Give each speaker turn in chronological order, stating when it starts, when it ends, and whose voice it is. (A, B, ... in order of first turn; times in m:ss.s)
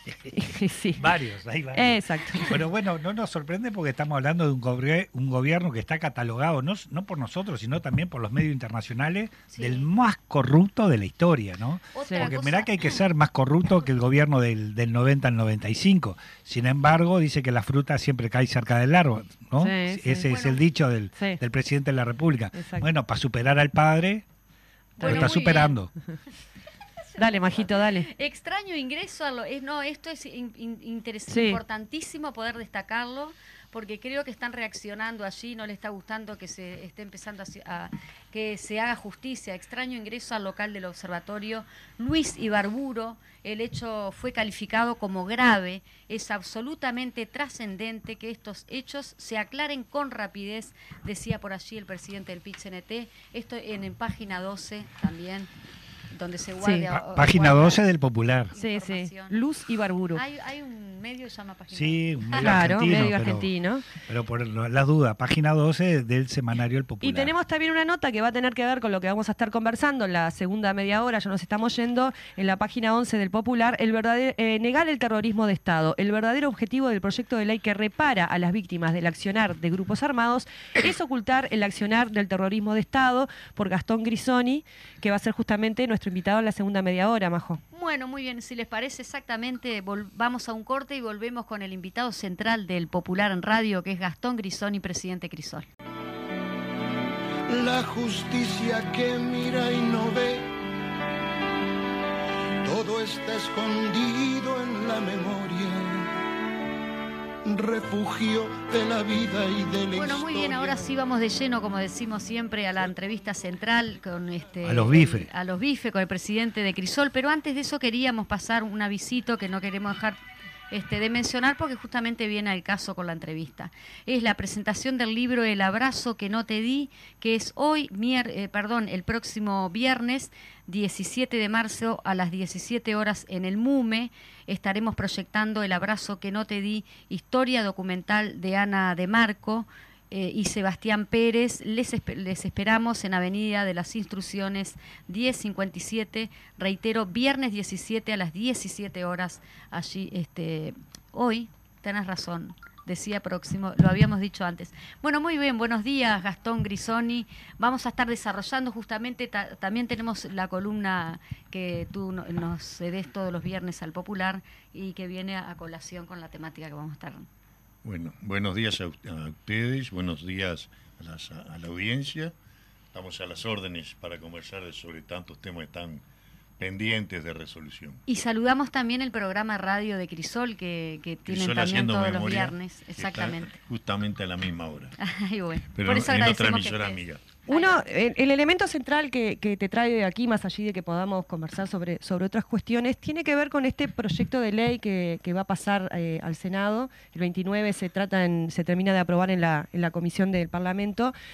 0:00.3-0:01.0 A
0:01.0-0:24.2 B
0:01.7-0:02.6 A
0:09.5-0:09.8 C
0:11.9-0:13.0 C
0:12.0-0:12.3 A
0:19.6-0:20.0 A
0:20.0-0:20.6 C
0:22.6-0:22.8 A
0:25.0-0:25.7 C
0:25.0-0:25.9 B
0:25.0-0:25.3 A
0:27.1-0:55.5 C
0:27.2-0:28.1 A
0:31.3-0:31.6 A
0:56.1-0:57.8 C
0:56.6-0:56.9 A
0:56.9-0:58.5 B
0:58.5-0:59.4 C
0:58.6-1:00.2 A
1:00.1-1:02.6 C
1:01.7-1:03.5 B
1:02.4-1:03.8 A
1:04.0-1:07.3 B
1:07.0-1:27.6 A
1:27.7-1:35.7 C
1:37.5-1:40.5 D
1:42.6-1:46.1 D
1:47.4-1:50.8 D
1:49.9-2:00.2 C
1:54.6-1:55.3 B
2:00.7-2:47.3 C
2:47.8-2:52.3 E
2:52.9-2:56.0 E
2:56.6-2:58.0 E
2:58.1-3:03.6 C
3:01.3-3:04.9 E
3:05.0-3:07.8 C
3:05.7-3:07.3 E
3:07.5-3:21.1 A